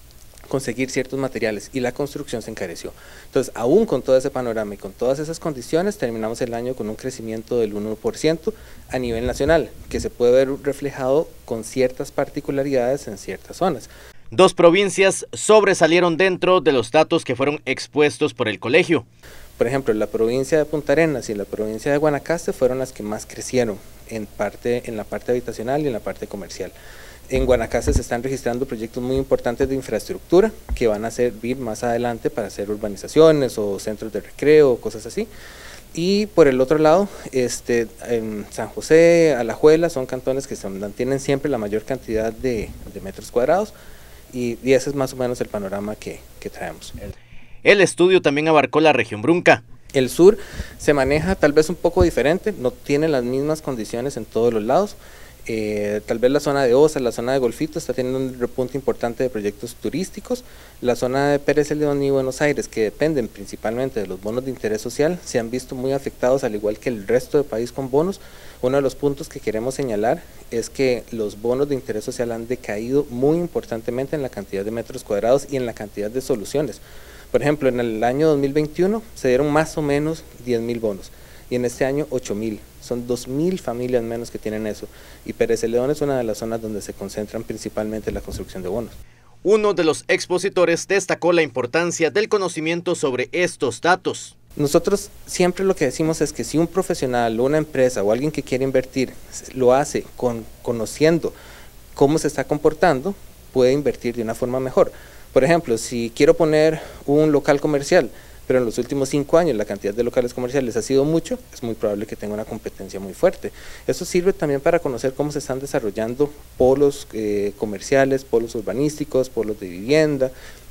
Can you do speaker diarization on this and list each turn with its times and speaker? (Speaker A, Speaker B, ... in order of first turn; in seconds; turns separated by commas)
Speaker A: 0.5-13.9, Speaker B: 14.3-19.0, Speaker A: 19.6-26.7, Speaker A: 27.3-35.3, Speaker A: 35.9-43.7, Speaker A: 44.3-47.0, Speaker B: 47.6-49.6, Speaker A: 49.9-89.0, Speaker B: 89.4-94.3, Speaker A: 94.5-101.3, Speaker A: 101.9-120.3